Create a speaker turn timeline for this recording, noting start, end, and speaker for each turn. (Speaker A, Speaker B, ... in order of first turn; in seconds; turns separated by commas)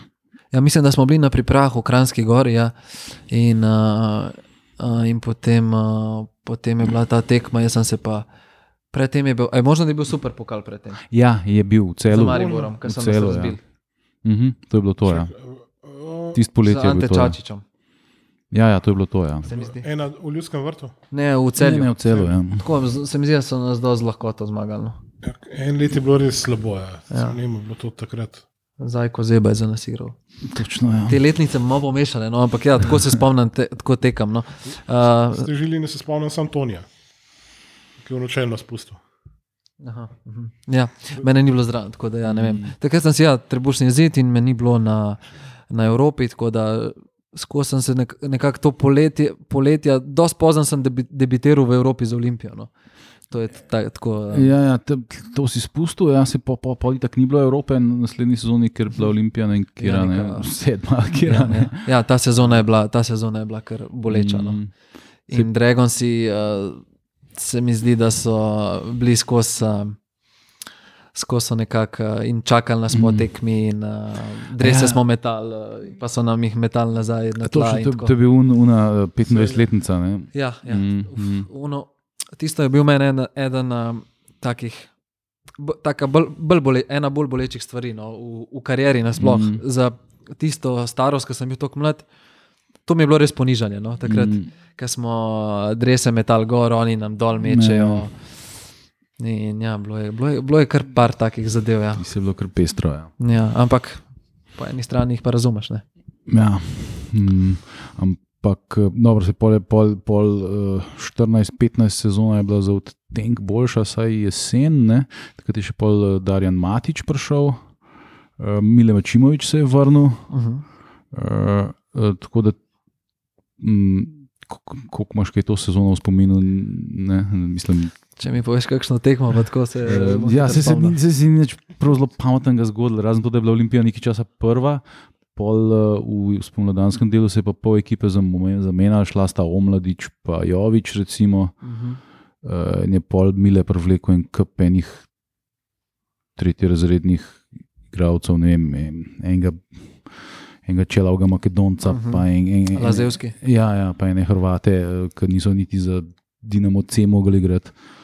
Speaker A: 0.5-8.3, Speaker A: 8.9-11.0, Speaker B: 11.1-13.6, Speaker A: 12.1-13.6, Speaker C: 12.2-12.7, Speaker B: 14.2-15.3, Speaker C: 15.0-16.4, Speaker B: 16.3-17.4, Speaker A: 16.6-17.6, Speaker B: 18.5-19.5, Speaker A: 19.4-19.8, Speaker C: 19.5-20.9, Speaker A: 21.1-25.0, Speaker B: 21.6-22.7, Speaker C: 25.2-28.4, Speaker A: 27.1-27.4, Speaker A: 28.8-30.2, Speaker B: 30.4-31.2, Speaker A: 31.1-35.5, Speaker C: 35.0-36.9, Speaker C: 38.0-39.0, Speaker A: 39.8-52.7, Speaker B: 42.2-42.7, Speaker A: 53.3-54.5, Speaker B: 54.3-61.8, Speaker A: 59.8-64.6, Speaker B: 64.1-64.7, Speaker A: 65.3-66.8, Speaker A: 67.3-70.0, Speaker A: 71.1-78.1, Speaker B: 72.9-73.3, Speaker B: 74.6-75.0, Speaker B: 77.4-81.5, Speaker C: 79.3-79.6, Speaker A: 80.3-84.9, Speaker A: 85.6-92.0, Speaker B: 89.2-89.6, Speaker A: 92.8-98.6, Speaker B: 94.0-94.5, Speaker B: 97.4-98.1, Speaker A: 99.2-102.0, Speaker B: 102.0-103.1, Speaker A: 103.2-105.8, Speaker B: 106.3-117.8, Speaker B: 118.4-120.4, Speaker A: 120.3-120.6, Speaker B: 121.1-122.6, Speaker B: 123.6-127.9, Speaker A: 128.2-130.9, Speaker B: 129.8-141.7, Speaker A: 141.6-142.0, Speaker B: 142.4-145.1, Speaker B: 146.3-157.8, Speaker A: 151.9-153.3